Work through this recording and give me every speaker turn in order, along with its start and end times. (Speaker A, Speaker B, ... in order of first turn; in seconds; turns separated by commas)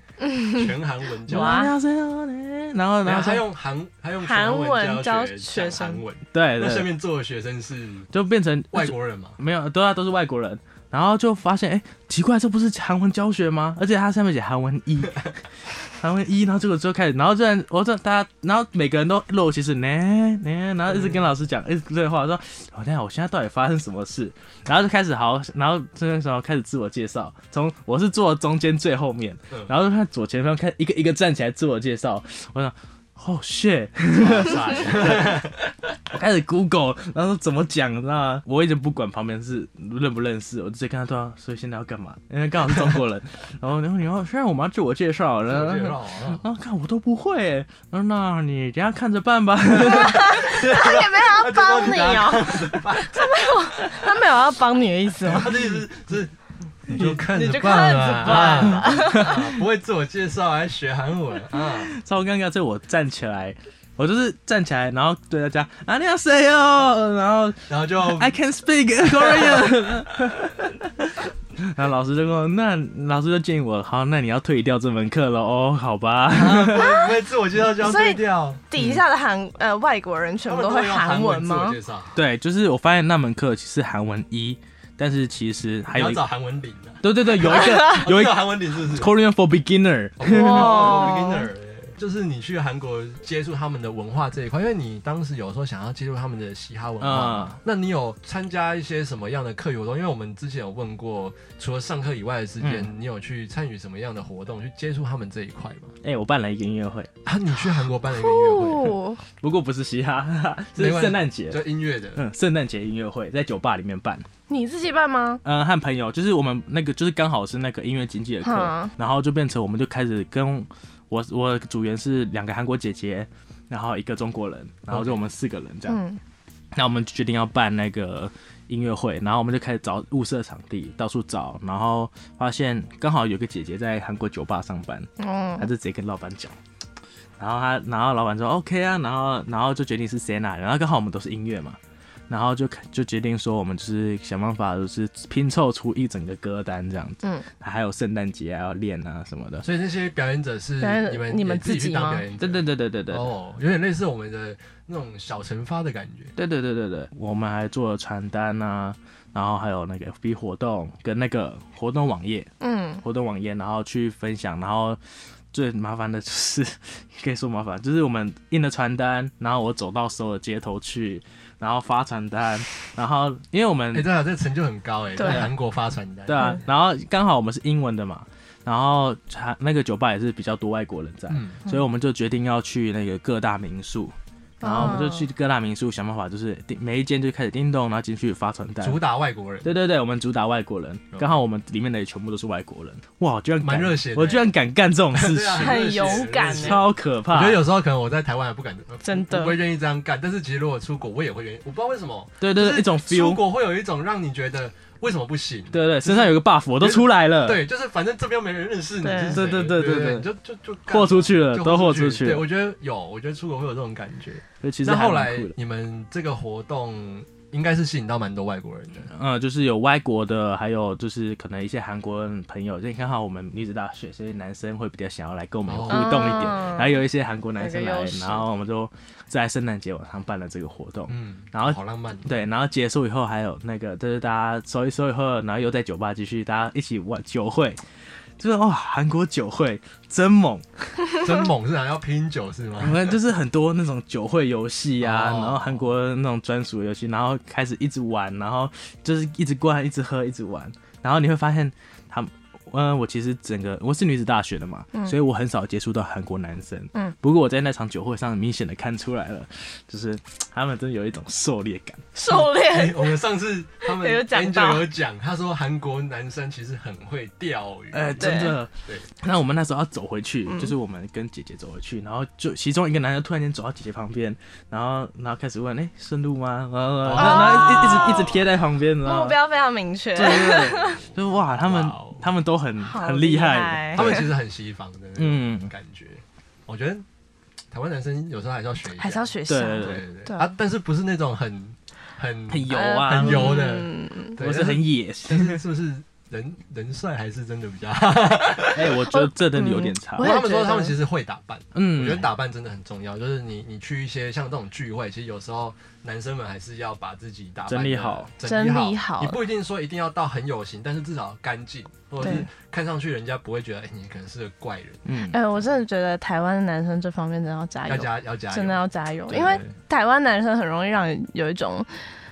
Speaker A: 0.2-0.7, Speaker B: 0.5-1.7, Speaker A: 1.3-1.7, Speaker C: 1.3-3.4, Speaker B: 3.0-8.1, Speaker A: 4.2-6.0, Speaker C: 6.3-6.9, Speaker C: 8.1-15.3, Speaker B: 8.7-9.4, Speaker C: 15.9-35.5, Speaker B: 20.9-21.2, Speaker B: 34.1-35.6, Speaker C: 36.1-50.3, Speaker B: 45.5-46.4, Speaker B: 49.8-53.5, Speaker A: 49.8-55.7, Speaker B: 55.2-56.3, Speaker B: 56.9-61.9, Speaker A: 57.0-59.5, Speaker C: 58.8-59.3, Speaker C: 61.7-76.8, Speaker B: 67.7-68.3, Speaker B: 69.0-69.7, Speaker B: 76.3-78.6, Speaker A: 76.8-77.1, Speaker A: 77.8-81.8, Speaker B: 80.5-82.2, Speaker C: 82.1-86.2, Speaker B: 85.9-89.1, Speaker C: 87.0-90.9, Speaker A: 87.6-87.9, Speaker B: 90.2-105.9, Speaker A: 90.3-91.5, Speaker C: 97.0-97.6, Speaker C: 102.6-102.9, Speaker C: 106.0-107.1, Speaker B: 107.2-109.0, Speaker A: 108.2-109.2, Speaker C: 109.4-114.3, Speaker B: 110.8-112.2, Speaker A: 114.5-115.4, Speaker C: 115.4-126.0, Speaker A: 118.4-118.9, Speaker B: 124.9-125.2, Speaker A: 125.9-126.2, Speaker C: 126.7-136.6, Speaker A: 135.2-135.7, Speaker C: 137.4-141.8, Speaker C: 142.3-149.7, Speaker B: 149.6-156.3, Speaker A: 150.8-152.2, Speaker C: 152.4-153.3, Speaker C: 156.3-162.5, Speaker A: 162.6-163.0, Speaker C: 163.0-165.0, Speaker C: 165.5-174.1, Speaker B: 173.9-176.6, Speaker C: 175.2-175.5, Speaker C: 176.3-189.0, Speaker B: 181.3-181.6, Speaker A: 184.6-185.3, Speaker B: 188.8-189.7, Speaker C: 189.6-197.6, Speaker B: 193.6-194.5, Speaker B: 195.1-219.1, Speaker A: 195.6-196.8, Speaker A: 199.0-199.6, Speaker C: 202.4-203.4, Speaker C: 205.7-207.6, Speaker A: 209.0-209.4, Speaker C: 209.3-210.3, Speaker C: 210.9-212.5, Speaker C: 214.6-215.5, Speaker C: 219.1-237.8, Speaker B: 225.7-226.6, Speaker A: 225.9-227.0, Speaker A: 227.6-228.4, Speaker B: 231.1-232.4, Speaker C: 238.4-241.1, Speaker B: 241.2-243.2, Speaker C: 242.8-262.1, Speaker B: 245.0-245.9, Speaker A: 262.1-263.2, Speaker B: 262.3-269.1, Speaker A: 263.8-264.9, Speaker C: 267.9-279.4, Speaker A: 268.2-268.6, Speaker A: 270.5-270.7, Speaker B: 277.0-278.4, Speaker A: 277.1-278.4, Speaker A: 279.0-281.0, Speaker C: 280.1-284.2, Speaker B: 280.3-282.2, Speaker A: 282.8-284.2, Speaker B: 283.9-287.0, Speaker C: 285.2-285.7, Speaker B: 287.7-299.0, Speaker A: 289.0-290.5, Speaker C: 289.5-290.0, Speaker C: 292.5-293.6, Speaker A: 292.7-294.4, Speaker C: 294.4-295.6, Speaker C: 298.7-300.3, Speaker A: 299.1-301.0, Speaker B: 300.2-315.0, Speaker C: 301.7-302.3, Speaker C: 307.7-308.3, Speaker A: 308.4-309.4, Speaker A: 312.2-312.5, Speaker C: 315.0-315.4, Speaker A: 315.3-322.0, Speaker B: 317.9-319.7